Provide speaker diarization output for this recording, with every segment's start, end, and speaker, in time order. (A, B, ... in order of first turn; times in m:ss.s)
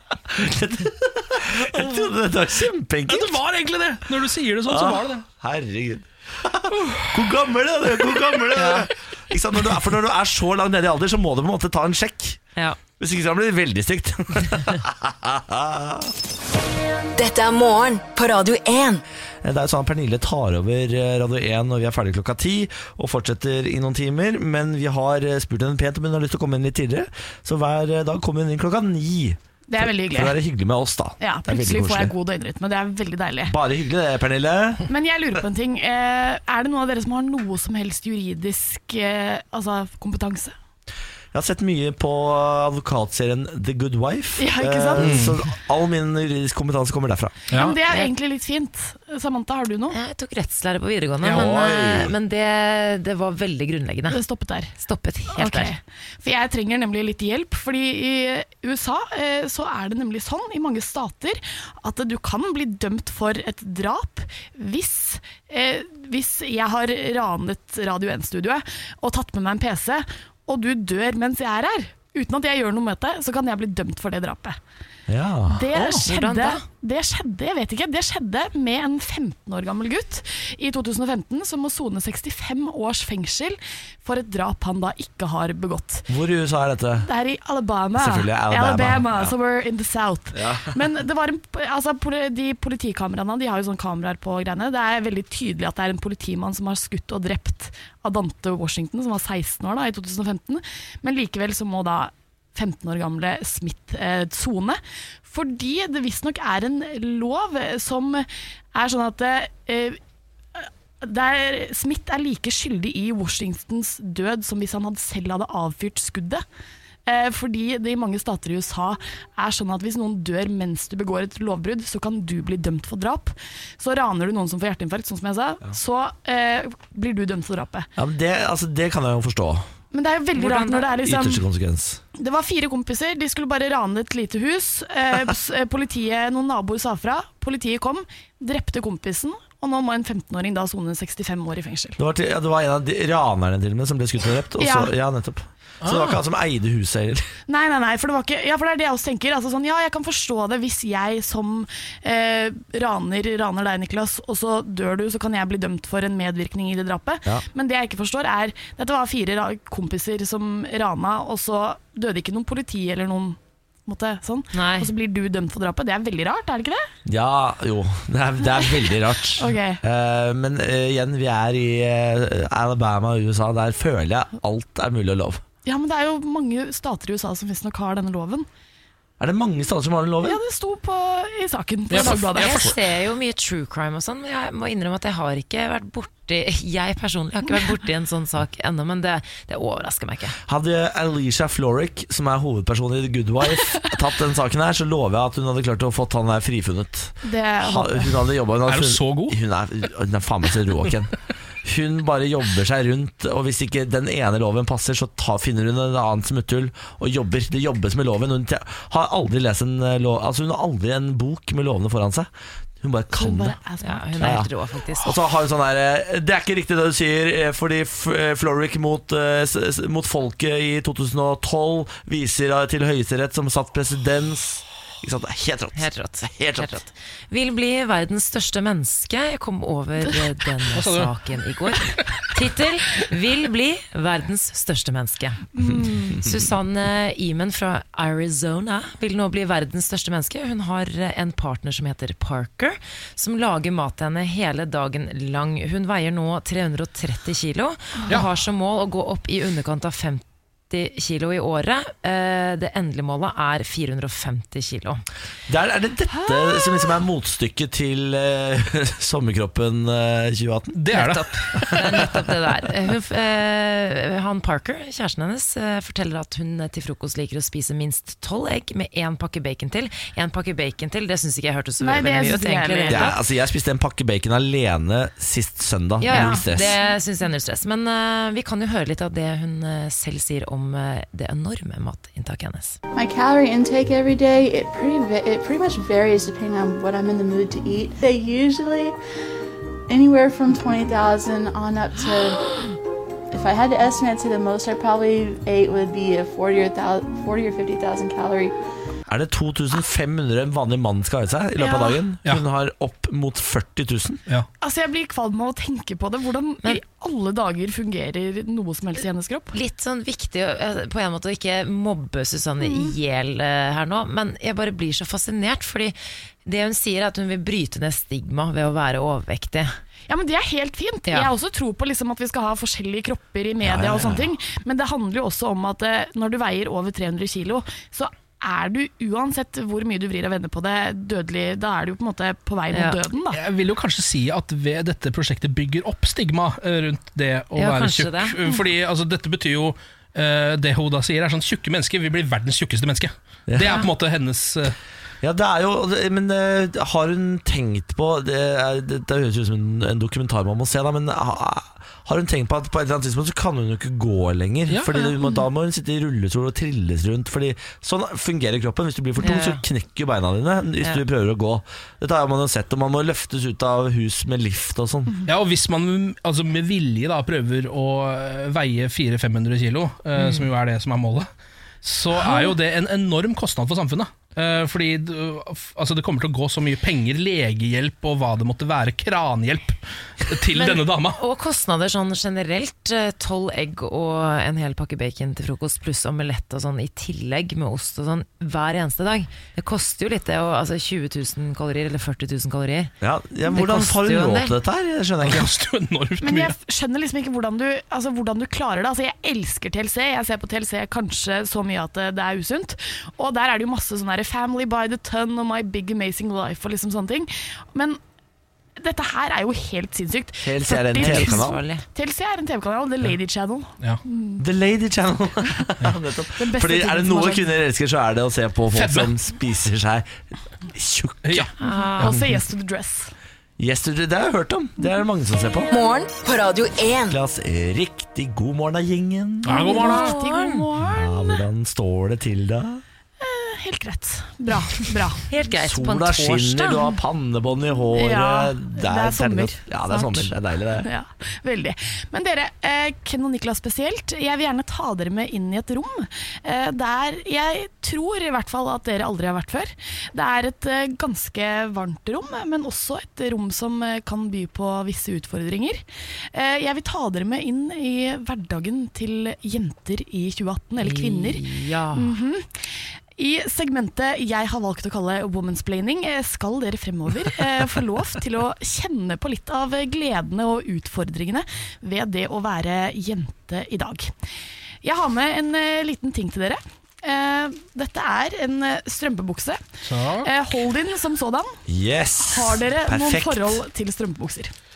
0:00.3-0:03.4 A
0:03.1-0:05.3 B
0:04.7-0:12.4 A
0:06.8-0:07.1 B
0:08.6-0:08.8 C
0:13.0-0:16.1 A
0:17.2-0:19.0 D
0:19.4-0:32.1 A
0:29.7-0:30.4 E
0:31.2-0:33.6 E
0:33.5-0:34.9 A
0:34.9-0:40.5 E
0:41.3-0:47.3 A
0:44.4-0:45.3 E
0:45.0-0:45.4 B
0:47.5-0:47.8 B
0:47.5-0:50.0 E
0:47.9-0:48.1 C
0:49.9-0:54.2 C
0:51.2-0:51.6 B
0:51.3-0:52.1 A
0:54.1-0:54.8 E
0:54.8-0:55.8 C
0:55.3-1:14.6 E
1:15.1-1:15.7 A
1:15.5-1:26.1 E
1:15.7-1:16.6 C
1:26.1-1:27.1 A
1:27.0-1:50.0 E
1:28.0-1:29.3 A
1:30.3-1:30.7 A
1:50.6-1:56.4 E
1:57.1-2:07.9 E
2:08.0-2:09.7 A
2:09.9-2:11.4 E
2:10.3-2:11.0 C
2:11.0-2:12.0 A
2:12.2-2:22.0 E
2:22.0-2:27.3 A
2:24.6-2:24.9 E
2:25.8-2:26.2 B
2:27.5-2:46.9 E
2:44.5-2:44.9 C
2:47.1-2:55.4 A
2:49.3-2:49.8 E
2:55.6-2:58.5 E
2:59.2-3:00.4 A
3:00.2-3:02.7 E
3:01.9-3:02.7 B
3:01.9-3:10.4 C
3:10.5-3:32.3 A
3:17.2-3:18.2 E
3:18.7-3:19.4 B
3:32.8-3:33.6 A
3:33.1-3:34.4 E
3:33.8-3:35.2 C
3:34.2-3:34.5 A
3:35.0-3:46.8 A
3:45.8-4:15.0 C
3:50.7-3:51.1 B
3:55.6-3:56.2 E
4:15.5-4:20.8 A
4:16.2-4:16.6 E
4:20.7-4:22.1 B
4:20.9-4:33.2 C
4:31.8-4:33.2 E
4:32.9-4:36.7 A
4:36.0-4:42.8 C
4:36.1-4:36.9 E
4:43.0-4:49.0 F
4:49.9-4:52.6 F
4:53.3-4:58.6 F
4:59.1-5:04.2 A
5:01.6-5:02.0 E
5:04.6-5:09.5 E
5:09.5-5:19.7 C
5:12.6-5:13.0 E
5:20.1-5:33.4 E
5:21.1-5:21.3 C
5:23.6-5:24.3 A
5:32.7-5:33.0 C
5:33.3-5:44.8 B
5:37.6-5:38.4 C
5:43.5-5:43.8 A
5:45.2-6:05.2 A
5:54.7-5:54.9 B
5:59.2-5:59.6 C
6:05.3-6:11.3 B
6:10.2-6:10.5 C
6:11.8-6:21.2 B
6:12.2-6:12.6 E
6:20.5-6:32.9 C
6:33.0-6:35.5 A
6:33.5-6:34.5 C
6:35.2-6:36.6 B
6:36.2-6:48.0 E
6:48.8-6:54.4 E
6:50.4-6:51.6 A
6:51.0-6:51.8 C
6:54.4-7:00.1 A
6:56.4-6:57.6 E
6:58.7-6:59.1 B
7:00.7-7:01.5 A
7:01.2-7:01.5 B
7:01.6-7:02.2 C
7:01.6-7:03.1 E
7:03.6-7:05.7 A
7:05.7-7:07.2 D
7:07.1-7:09.8 A
7:09.5-7:10.1 B
7:09.5-7:11.4 E
7:09.8-7:10.7 C
7:10.8-7:12.8 A
7:13.2-7:15.3 E
7:15.3-7:16.9 C
7:15.6-7:20.9 A
7:17.9-7:42.5 E
7:40.8-7:42.2 C
7:43.2-7:54.1 E
7:54.8-7:59.6 E
7:59.8-8:00.3 B
8:00.2-8:01.6 E
8:01.7-8:03.6 A
8:02.2-8:04.5 E